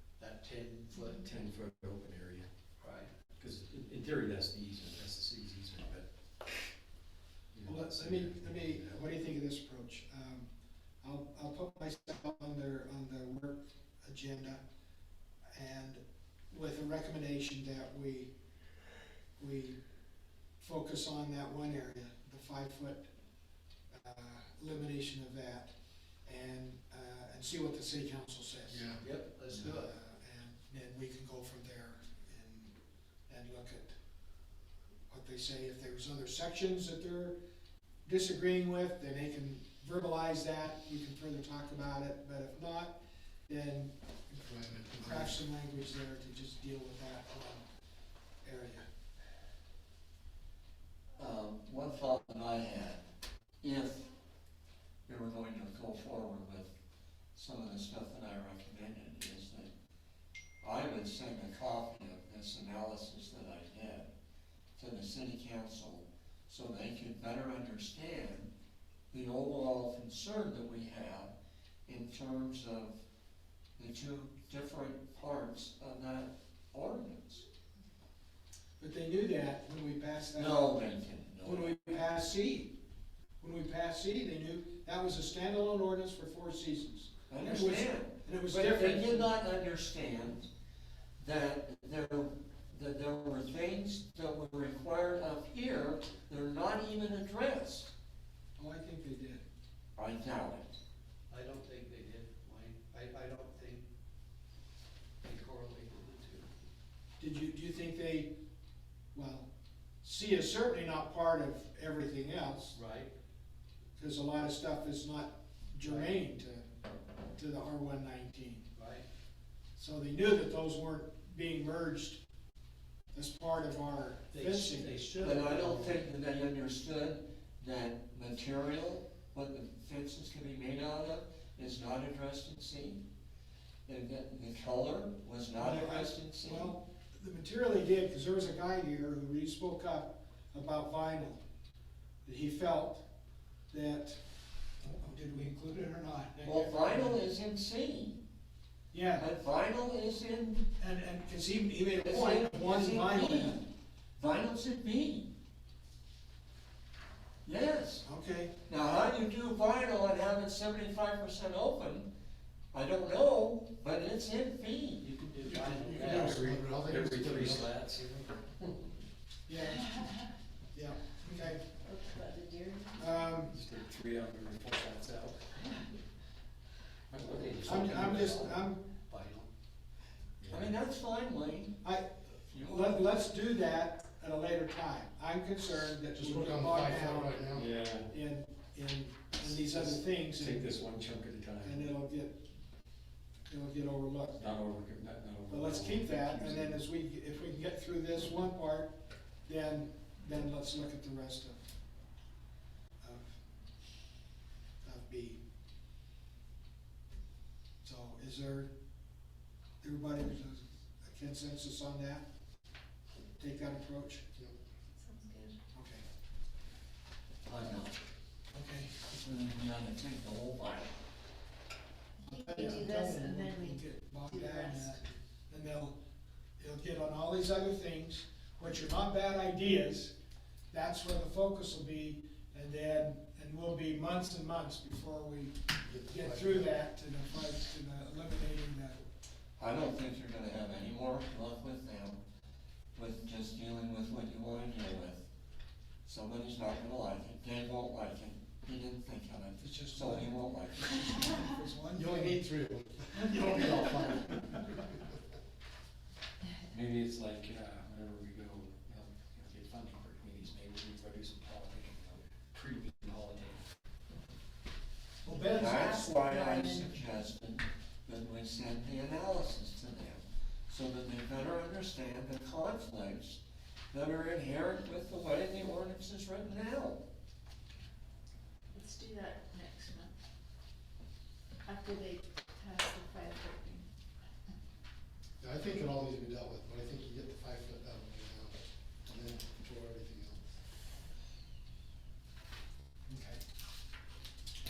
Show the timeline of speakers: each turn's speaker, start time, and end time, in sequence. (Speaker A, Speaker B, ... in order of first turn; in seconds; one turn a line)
Speaker A: 0.2-1.2
Speaker B: 1.1-2.5
Speaker A: 2.8-3.1
Speaker B: 3.3-6.1
Speaker B: 7.5-9.0
Speaker C: 7.7-10.5
Speaker C: 11.0-14.6
Speaker C: 15.5-18.3
Speaker C: 19.4-19.8
Speaker C: 20.6-23.1
Speaker C: 23.9-25.7
Speaker C: 26.2-29.0
Speaker D: 28.7-29.0
Speaker A: 29.0-29.9
Speaker C: 29.5-32.7
Speaker C: 33.3-34.0
Speaker C: 35.1-37.4
Speaker C: 38.0-43.9
Speaker D: 44.3-45.4
Speaker C: 45.0-47.6
Speaker C: 48.4-48.8
Speaker E: 51.2-53.0
Speaker E: 53.6-54.1
Speaker E: 55.1-56.7
Speaker E: 57.3-59.7
Speaker E: 60.6-64.1
Speaker E: 64.8-68.5
Speaker E: 69.1-71.3
Speaker E: 71.9-73.0
Speaker E: 73.8-77.5
Speaker C: 78.8-80.8
Speaker E: 80.3-82.0
Speaker C: 81.4-82.7
Speaker C: 83.4-89.4
Speaker E: 87.3-90.5
Speaker E: 91.2-97.9
Speaker C: 98.6-99.4
Speaker E: 100.0-100.7
Speaker A: 101.3-103.9
Speaker A: 105.2-106.5
Speaker C: 107.2-108.3
Speaker C: 109.1-109.5
Speaker C: 110.0-112.8
Speaker A: 112.7-113.1
Speaker C: 114.0-116.7
Speaker A: 115.8-116.2
Speaker C: 117.4-118.7
Speaker A: 118.8-119.0
Speaker C: 119.8-122.2
Speaker C: 123.1-125.0
Speaker A: 124.3-126.0
Speaker E: 125.2-133.0
Speaker E: 133.8-136.7
Speaker C: 135.6-141.4
Speaker C: 142.2-143.0
Speaker C: 143.7-144.2
Speaker C: 144.8-147.2
Speaker E: 146.4-148.2
Speaker C: 148.9-149.3
Speaker E: 149.1-150.7
Speaker C: 150.8-153.6
Speaker E: 152.0-153.7
Speaker E: 154.2-155.3
Speaker E: 157.4-158.1
Speaker C: 158.1-158.5
Speaker E: 158.7-162.1
Speaker E: 162.7-165.1
Speaker A: 165.0-166.4
Speaker D: 165.4-167.7
Speaker B: 166.0-168.4
Speaker C: 169.5-170.1
Speaker C: 170.7-171.7
Speaker F: 171.8-173.3
Speaker C: 173.0-173.6
Speaker B: 173.5-175.5
Speaker B: 177.1-178.6
Speaker A: 177.4-179.5
Speaker C: 177.7-178.8
Speaker B: 180.4-180.7
Speaker E: 180.5-181.8
Speaker C: 181.8-182.1
Speaker E: 182.4-183.1
Speaker C: 182.7-187.6
Speaker D: 186.1-187.7
Speaker B: 187.5-188.1
Speaker C: 188.1-190.8
Speaker B: 189.4-191.9
Speaker C: 191.6-192.4
Speaker C: 193.5-194.4
Speaker B: 194.3-196.8
Speaker C: 195.5-198.9
Speaker C: 199.5-201.7
Speaker C: 203.0-203.3
Speaker C: 204.8-205.4
Speaker C: 207.8-208.7
Speaker C: 209.8-212.2
Speaker C: 213.4-214.2
Speaker F: 214.9-215.6
Speaker C: 215.7-216.0
Speaker E: 217.5-217.9
Speaker C: 218.5-219.0
Speaker E: 219.1-220.9
Speaker F: 222.2-225.0
Speaker C: 222.2-226.0
Speaker C: 226.6-230.1
Speaker C: 230.7-235.6
Speaker D: 235.8-236.7
Speaker C: 236.1-239.0
Speaker E: 239.6-242.2
Speaker E: 242.9-245.2
Speaker E: 246.1-251.4
Speaker C: 249.6-252.4
Speaker D: 251.9-254.9
Speaker B: 256.7-263.6
Speaker C: 265.2-266.9
Speaker E: 265.5-277.0
Speaker F: 278.7-280.2
Speaker F: 281.6-283.9
Speaker D: 285.4-290.5
Speaker C: 293.1-293.4